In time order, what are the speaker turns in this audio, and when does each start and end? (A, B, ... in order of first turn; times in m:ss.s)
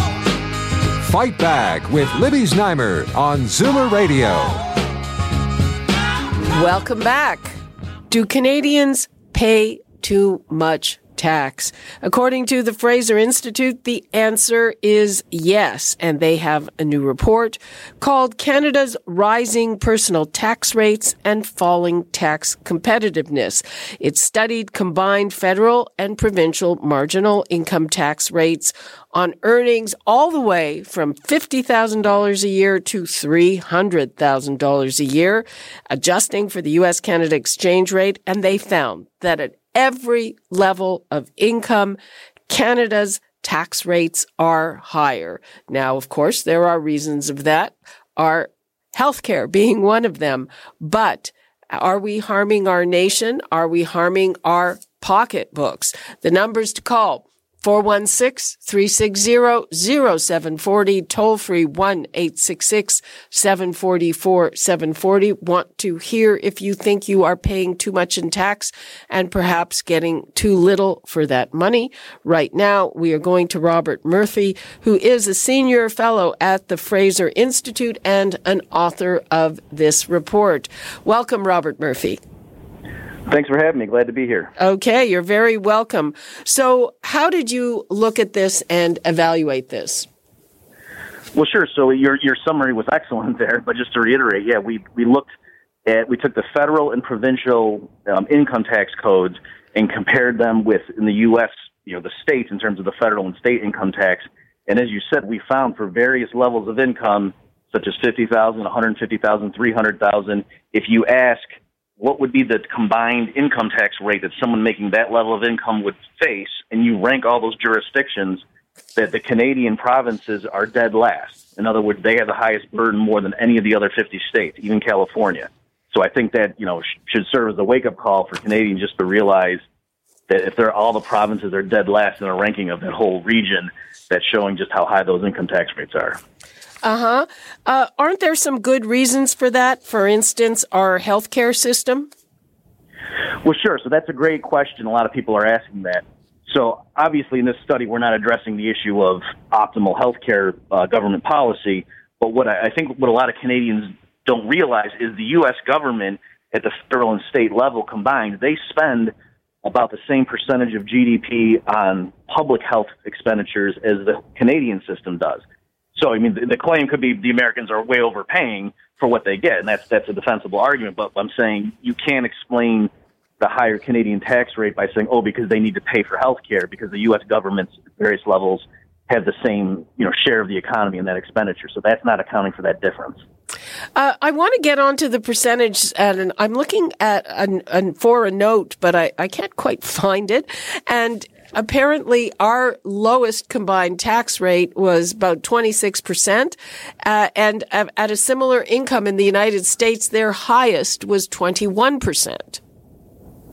0:01.0-0:04.6 A
0:06.5-0:07.5 B
0:08.1-0:42.0 B
0:42.5-1:22.2 B
1:23.3-1:24.5 C
1:24.6-1:30.1 B
1:31.3-1:35.3 C
1:35.9-1:51.5 C
1:52.0-1:58.4 C
1:59.0-2:09.6 C
2:10.3-2:16.2 C
2:16.8-2:22.1 B
2:23.4-2:45.4 C
2:46.0-3:03.2 C
3:04.0-3:22.6 B